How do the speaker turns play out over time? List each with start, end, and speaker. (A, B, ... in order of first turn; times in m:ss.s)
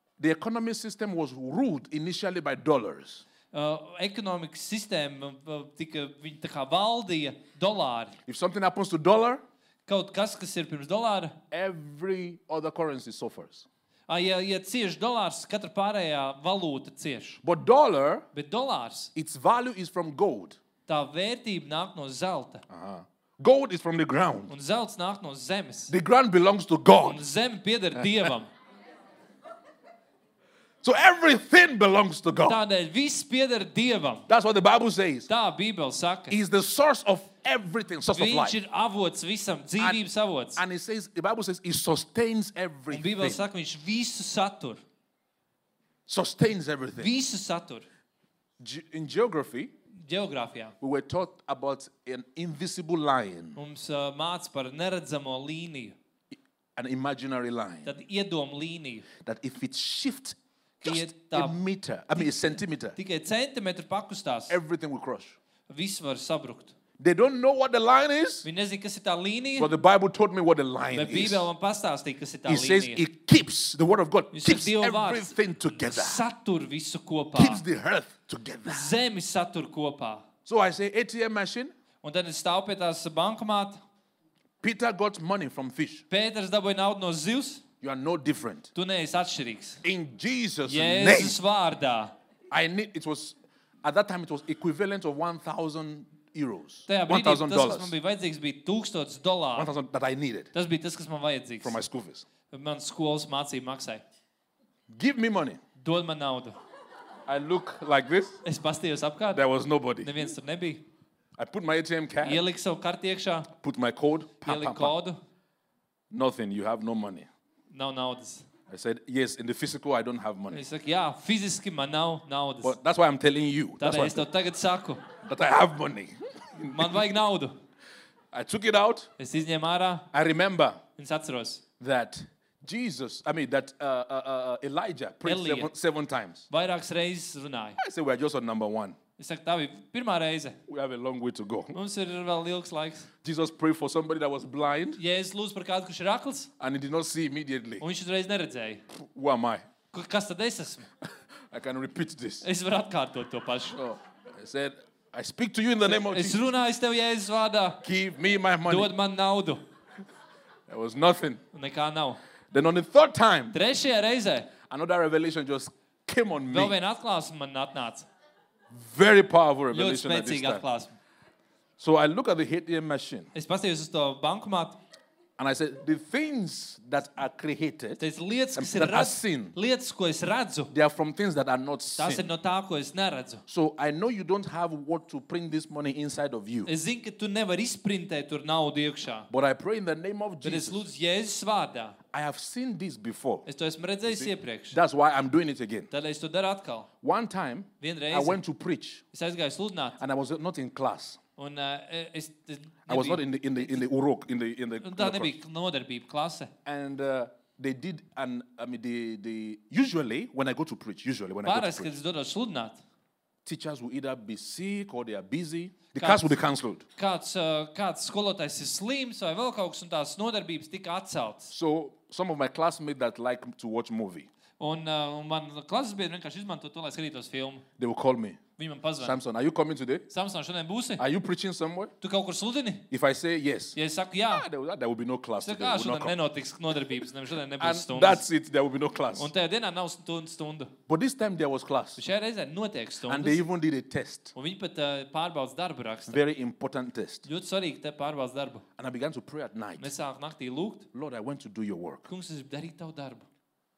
0:00.2-0:03.2 A
0:03.5-0:08.2 B
0:08.2-0:09.4 A
0:09.8-0:11.4 B
0:11.5-0:13.7 A
0:14.1-0:17.4 B
0:17.4-0:18.2 A
0:18.3-0:19.1 B
0:19.2-0:20.6 A
0:20.9-0:22.6 B
0:22.7-0:24.5 A
0:24.5-0:25.9 B
0:25.9-0:27.2 A
0:27.0-0:28.5 B
0:27.9-0:28.3 A
0:30.8-0:32.6 A
0:32.4-0:34.3 B
0:34.3-0:35.3 A
0:35.3-0:36.4 B
0:36.3-0:38.6 A
0:38.1-0:40.6 B
0:39.8-0:40.0 A
0:40.6-0:43.4 A
0:42.9-0:44.8 B
0:46.1-0:47.1 A
0:47.0-0:47.8 B
0:48.6-0:49.7 A
0:50.0-0:50.7 B
0:50.8-0:53.6 A
0:53.6-0:56.0 B
0:56.8-0:57.9 A
0:57.8-0:59.1 B
0:59.2-1:02.9 A
1:00.8-1:01.6 B
1:02.2-1:02.4 B
1:02.9-1:04.6 B
1:04.5-1:05.4 A
1:05.7-1:06.7 B
1:07.0-1:08.5 A
1:08.4-1:09.7 B
1:09.6-1:11.5 A
1:10.9-1:13.0 B
1:12.4-1:16.2 A
1:14.3-1:17.6 B
1:17.3-1:18.9 A
1:18.7-1:20.2 B
1:20.4-1:21.7 A
1:22.0-1:23.8 B
1:24.6-1:26.0 A
1:26.1-1:27.6 B
1:27.8-1:28.7 A
1:28.7-1:29.8 B
1:29.8-1:31.4 A
1:30.6-1:32.1 B
1:32.5-1:37.9 A
1:36.9-1:39.7 B
1:39.6-1:40.5 A
1:40.5-1:41.8 B
1:41.6-1:42.2 A
1:42.5-1:44.0 B
1:44.9-1:45.6 A
1:45.8-1:46.6 B
1:47.2-1:48.4 A
1:48.4-1:49.4 B
1:49.3-1:50.2 A
1:50.0-1:50.8 B
1:51.4-1:52.4 A
1:52.2-1:53.5 B
1:53.5-1:54.9 A
1:54.4-1:55.2 B
1:56.1-1:57.3 A
1:57.7-1:58.5 B
1:58.7-2:00.6 A
2:00.5-2:02.8 B
2:02.6-2:04.3 A
2:03.8-2:05.0 B
2:05.2-2:07.1 A
2:06.7-2:07.5 B
2:08.3-2:09.1 A
2:09.2-2:10.1 B
2:10.1-2:10.8 A
2:11.0-2:11.6 B
2:11.8-2:16.4 A
2:15.2-2:15.7 B
2:16.5-2:17.8 B
2:17.8-2:19.0 A
2:19.2-2:20.6 B
2:20.7-2:21.8 A
2:21.7-2:23.1 B
2:23.2-2:25.0 A
2:25.0-2:26.5 B
2:26.6-2:27.8 A
2:27.8-2:28.8 B
2:28.9-2:29.6 A
2:29.9-2:30.9 B
2:31.5-2:32.4 A
2:32.4-2:33.8 B
2:33.7-2:36.4 A
2:35.8-2:37.8 B
2:37.8-2:38.9 A
2:38.7-2:39.6 B
2:40.7-2:41.4 A
2:41.5-2:42.2 B
2:42.5-2:43.6 A
2:43.5-2:44.5 B
2:44.6-2:46.8 A
2:46.5-2:48.1 B
2:48.7-2:50.6 A
2:49.7-2:50.9 B
2:51.8-2:53.3 A
2:53.3-2:54.8 B
2:55.4-2:58.0 A
2:58.0-3:00.7 B
2:58.6-2:59.6 A
3:00.7-3:02.3 A
3:02.0-3:03.4 B
3:03.5-3:06.7 A
3:06.6-3:09.3 B
3:09.3-3:10.9 A
3:10.4-3:12.0 B
3:12.1-3:13.4 A
3:13.4-3:14.8 B
3:14.0-3:15.9 A
3:15.9-3:16.9 B
3:17.0-3:19.0 A
3:17.8-3:18.4 B
3:19.1-3:20.0 B
3:20.0-3:21.2 A
3:21.4-3:23.8 B
3:22.9-3:25.3 A
3:24.8-3:26.5 B
3:26.6-3:32.0 A
3:31.4-3:32.8 B
3:33.4-3:36.8 A
3:35.9-3:36.4 B
3:37.0-3:41.5 B
3:41.5-3:44.3 A
3:44.6-3:47.6 B
3:47.8-3:48.4 A
3:48.6-3:49.2 B
3:49.0-3:50.1 A
3:50.1-3:51.0 B
3:51.0-3:51.9 A
3:52.0-3:52.9 B
3:52.9-3:53.8 A
3:53.7-3:54.4 B
3:54.3-3:56.2 A
3:55.4-3:58.2 B
3:57.6-3:59.3 A
3:59.2-4:00.7 B
4:00.9-4:02.0 A
4:02.0-4:03.4 B
4:03.1-4:04.3 A
4:04.3-4:06.2 B
4:06.1-4:07.3 A
4:07.2-4:08.6 B
4:08.8-4:09.9 A
4:09.8-4:10.9 B
4:10.9-4:12.1 A
4:12.1-4:13.3 B